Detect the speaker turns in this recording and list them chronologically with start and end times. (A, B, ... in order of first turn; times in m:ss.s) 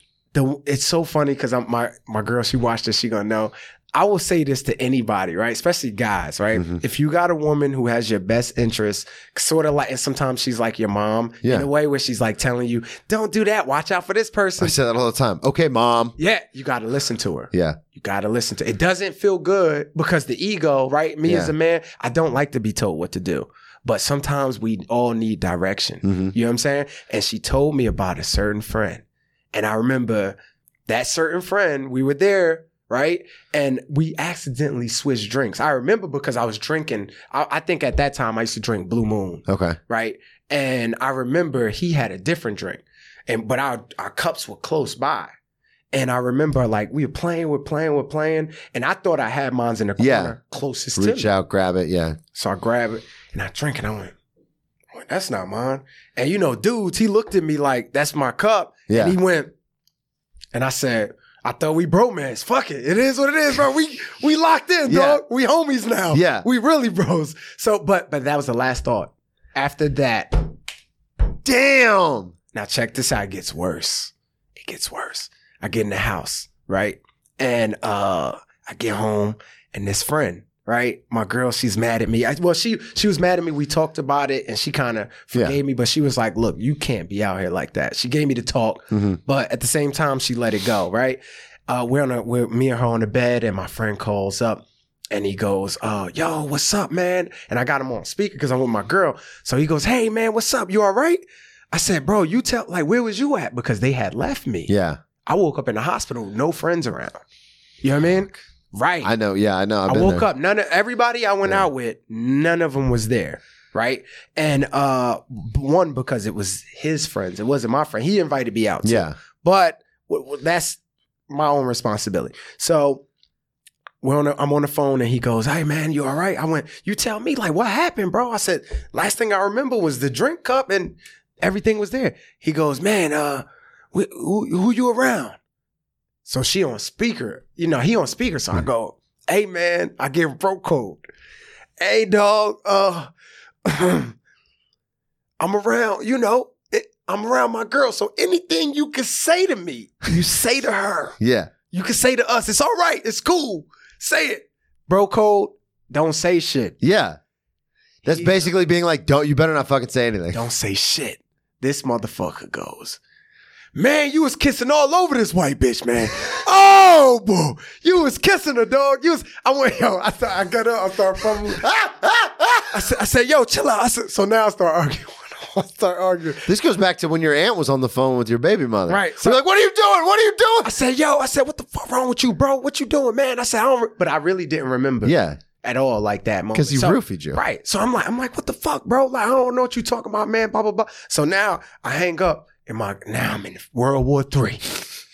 0:00.3-0:14.8 A
0:14.6-0:16.2 B
0:16.2-0:30.4 A
0:17.5-0:17.8 B
0:21.2-0:21.5 B
0:26.0-0:26.3 B
0:30.9-0:45.3 A
0:39.5-0:39.8 B
0:45.9-0:51.3 A
0:50.0-0:50.4 B
0:51.0-0:52.2 B
0:52.3-0:54.2 A
0:54.9-0:59.5 A
0:58.9-0:59.2 B
1:00.5-1:10.5 A
1:04.9-1:05.2 B
1:06.1-1:06.4 B
1:11.4-1:12.3 B
1:12.5-1:44.7 A
1:28.9-1:29.2 B
1:44.7-1:45.0 B
1:45.2-1:47.2 A
1:47.8-1:49.1 A
1:49.0-1:50.3 B
1:49.9-2:03.0 A
1:58.8-1:59.2 B
2:04.0-2:15.4 A
2:16.2-2:21.0 A
2:21.8-2:23.1 A
2:23.6-2:24.2 A
2:25.4-2:31.2 A
2:31.2-2:31.5 B
2:31.7-2:36.8 A
2:36.8-2:37.2 B
2:38.0-2:38.5 A
2:38.1-2:40.4 B
2:40.3-2:43.0 A
2:43.8-2:51.7 A
2:51.6-2:52.7 B
2:52.7-2:56.5 A
2:56.5-3:00.7 B
2:58.9-2:59.4 A
3:00.6-3:14.8 A
3:05.0-3:05.4 B
3:06.5-3:07.4 B